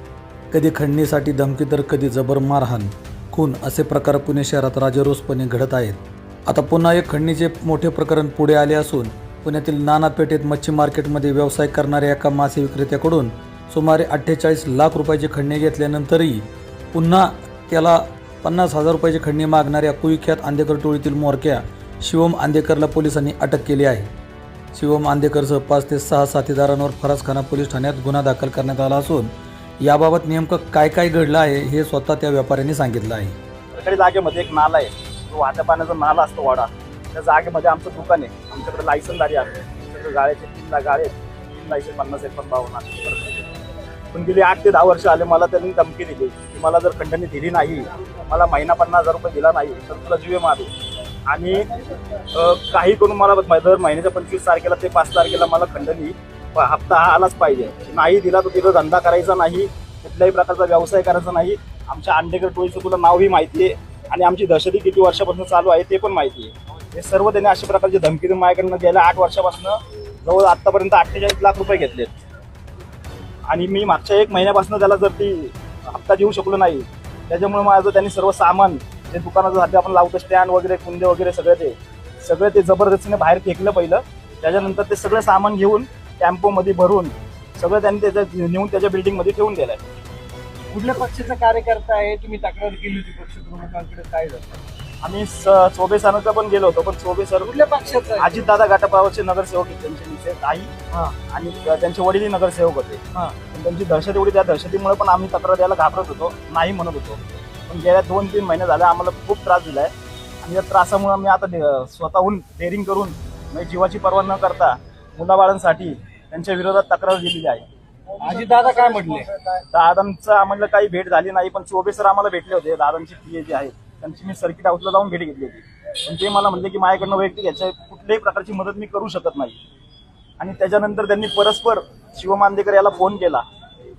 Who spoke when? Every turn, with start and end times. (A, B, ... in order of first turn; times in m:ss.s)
0:00.5-0:16.4 A
0:16.9-0:24.1 A
0:24.7-0:29.3 A
0:29.8-0:33.4 A
0:33.8-0:43.5 B
0:44.1-0:50.7 B
0:51.3-0:51.7 B
0:52.3-1:12.2 B
1:13.5-1:29.8 B
1:30.7-1:34.6 C
1:35.0-1:37.5 B
1:37.4-1:38.4 C
1:38.2-1:40.7 B
1:41.3-1:43.0 B
1:43.5-1:49.9 B
1:50.4-1:57.6 B
1:58.2-1:59.4 C
1:59.7-2:09.6 B
2:10.4-2:13.4 B